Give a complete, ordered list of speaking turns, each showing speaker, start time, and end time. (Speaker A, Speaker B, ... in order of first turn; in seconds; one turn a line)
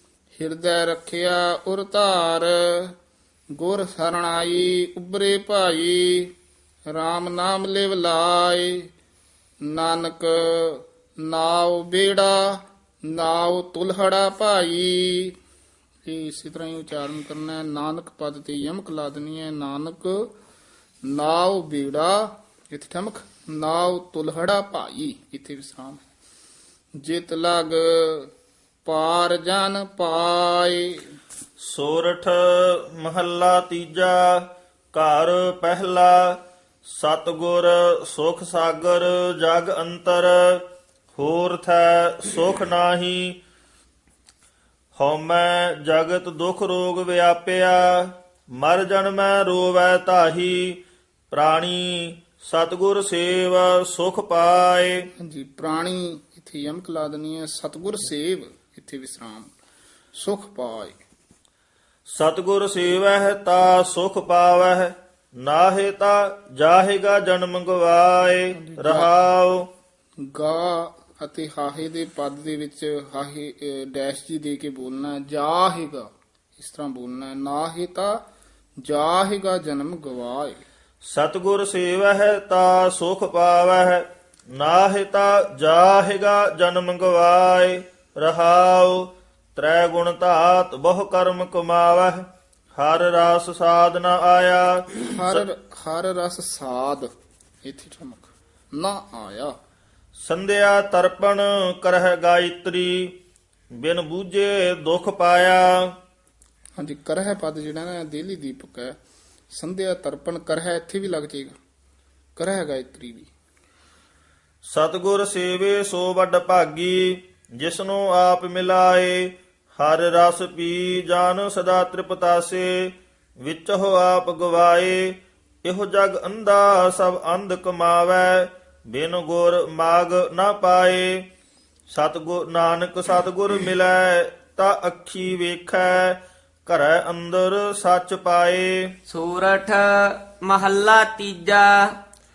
Speaker A: 0.3-2.9
Speaker A: 3.6-6.3
Speaker A: 6.9-8.9
Speaker A: 9.6-15.4
Speaker A: 16.0-20.3
Speaker A: 21.0-26.0
Speaker A: 27.0-28.3
Speaker A: 28.8-31.1
Speaker B: 31.6-40.6
Speaker B: 41.1-43.4
Speaker B: 44.9-50.8
Speaker B: 51.3-55.1
Speaker A: 55.2-59.5
Speaker A: 60.1-61.0
Speaker B: 62.1-69.7
Speaker A: 68.6-69.1
Speaker A: 70.3-78.2
Speaker A: 78.8-80.6
Speaker B: 81.0-95.4
Speaker A: 95.1-97.1
Speaker A: 97.6-99.5
Speaker B: 100.2-103.1
Speaker B: 103.7-105.9
Speaker A: 106.8-109.0
Speaker A: 109.5-111.6
Speaker A: 112.3-113.3
Speaker B: 114.6-131.2
Speaker B: 131.9-138.9
Speaker C: 139.1-141.9